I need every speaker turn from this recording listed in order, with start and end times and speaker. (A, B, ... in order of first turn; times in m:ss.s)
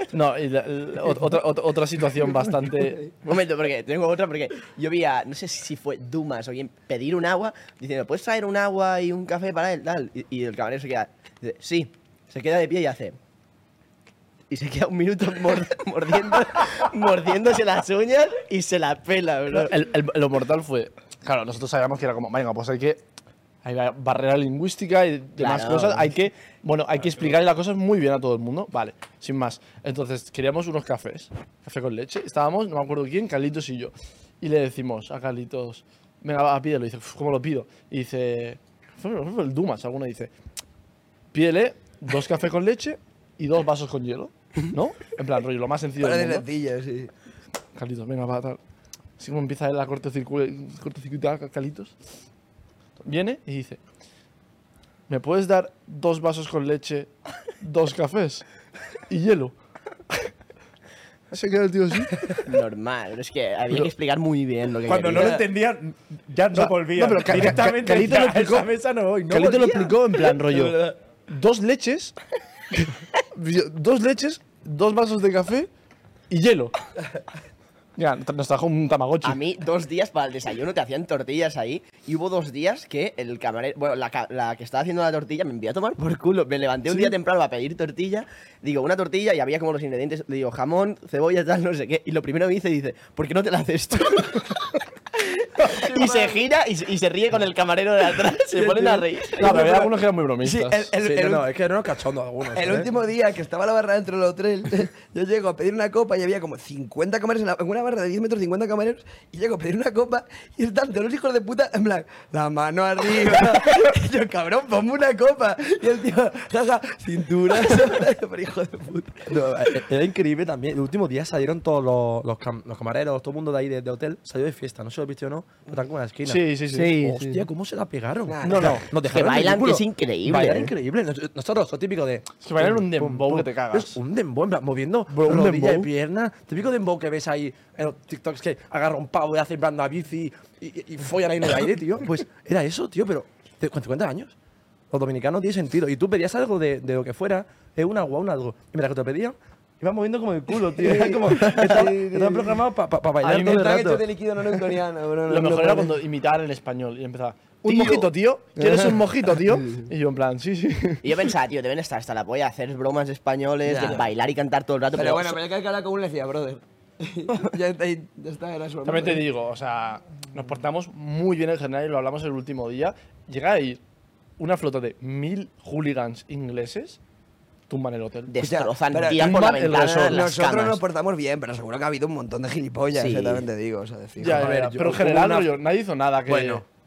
0:00.1-0:03.1 A
0:03.2-0:13.2 B
0:14.5-0:19.7 B
0:19.5-0:23.0 A
0:23.6-0:40.3 A
0:25.4-0:26.0 B
0:41.3-0:46.4 A
0:46.0-0:47.1 C
0:47.8-0:48.6 A
0:49.2-0:52.0 A
0:53.0-0:53.8 A
0:55.1-0:58.4 A
0:59.1-0:59.6 A
1:01.3-1:02.4 A
1:02.4-1:05.4 B
1:04.9-1:10.0 D
1:06.5-1:08.7 A
1:09.3-1:12.2 A
1:10.5-1:10.7 C
1:12.7-1:15.7 A
1:16.3-1:16.7 A
1:18.0-1:19.4 A
1:19.2-1:34.8 B
1:35.4-1:39.9 B
1:35.8-1:36.2 A
1:38.6-1:41.5 C
1:38.7-1:40.9 A
1:41.0-1:42.9 E
1:42.5-1:59.5 C
1:59.3-2:24.3 E
2:06.3-2:07.4 A
2:08.3-2:08.8 C
2:08.4-2:08.9 A
2:08.9-2:10.7 B
2:12.4-2:14.0 A
2:15.1-2:15.9 A
2:24.9-2:34.1 E
2:30.8-2:32.6 C
2:33.2-2:33.6 A
2:33.3-2:36.0 C
2:35.3-2:41.0 A
2:37.7-2:39.8 C
2:41.0-2:45.4 B
2:43.6-2:44.1 C
2:44.9-2:49.2 C
2:48.8-2:53.8 A
2:54.4-2:57.0 A
2:57.7-2:58.3 A
2:58.3-3:00.8 B
2:58.4-3:04.6 C
2:59.1-3:00.3 A
3:03.0-3:03.4 B
3:04.2-3:06.6 A
3:04.3-3:05.5 E
3:06.3-3:06.6 E